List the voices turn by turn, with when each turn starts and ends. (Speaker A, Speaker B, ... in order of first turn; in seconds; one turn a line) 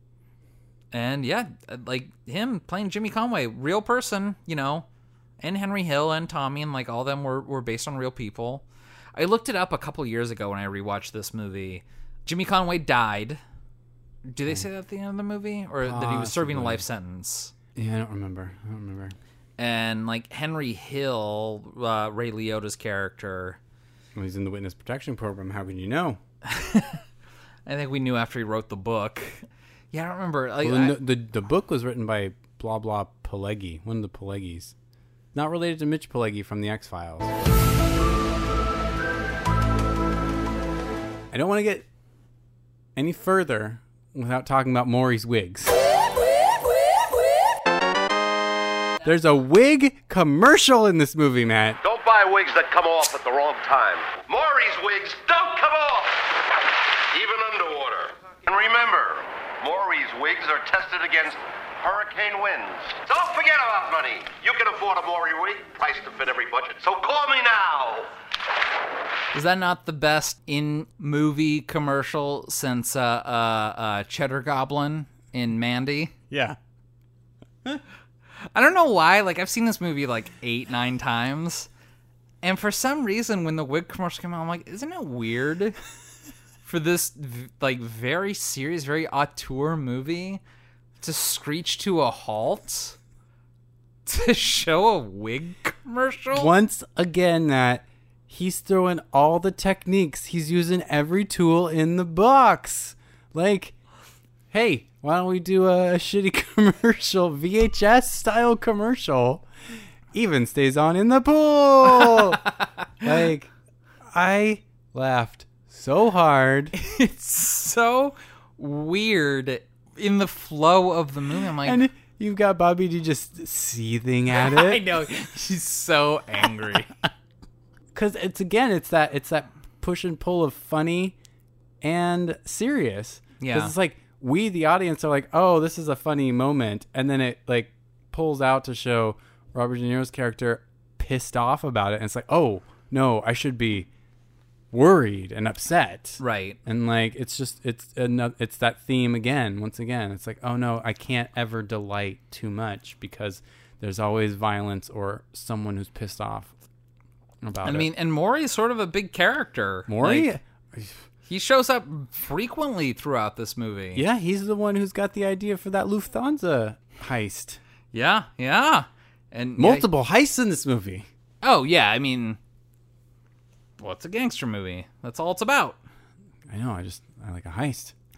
Speaker A: 0.9-4.8
Speaker A: 5.4-8.6
Speaker A: 9.2-13.4
Speaker A: 14.3-17.5
Speaker B: 15.8-16.8
Speaker B: 17.7-19.1
Speaker A: 19.6-23.6
Speaker B: 24.1-26.2
Speaker A: 26.5-27.0
Speaker A: 27.6-31.0
Speaker B: 30.6-34.7
Speaker B: 35.3-37.5
Speaker B: 41.3-41.9
Speaker B: 43.0-45.8
Speaker B: 49.0-51.8
Speaker C: 51.8-56.4
Speaker C: 57.1-68.1
Speaker A: 69.3-76.1
Speaker B: 76.3-76.6
Speaker A: 78.5-81.7
Speaker A: 82.4-85.8
Speaker A: 86.6-90.4
Speaker A: 91.0-93.0
Speaker A: 94.0-96.5
Speaker B: 96.3-103.7
Speaker B: 104.5-109.5
Speaker B: 110.1-112.4
Speaker B: 113.0-113.5
Speaker B: 114.1-116.7
Speaker A: 116.8-121.8
Speaker B: 121.6-124.8
Speaker A: 124.3-126.9
Speaker B: 127.9-131.2
Speaker B: 131.8-143.9
Speaker A: 133.4-133.7
Speaker B: 144.7-156.5
Speaker A: 146.2-146.6
Speaker B: 157.4-157.9
Speaker A: 157.6-160.3
Speaker B: 159.9-161.0
Speaker A: 161.3-164.0
Speaker B: 163.9-167.6
Speaker A: 167.9-169.8
Speaker B: 169.6-171.1
Speaker A: 171.4-172.4
Speaker A: 173.8-175.8
Speaker B: 176.5-177.9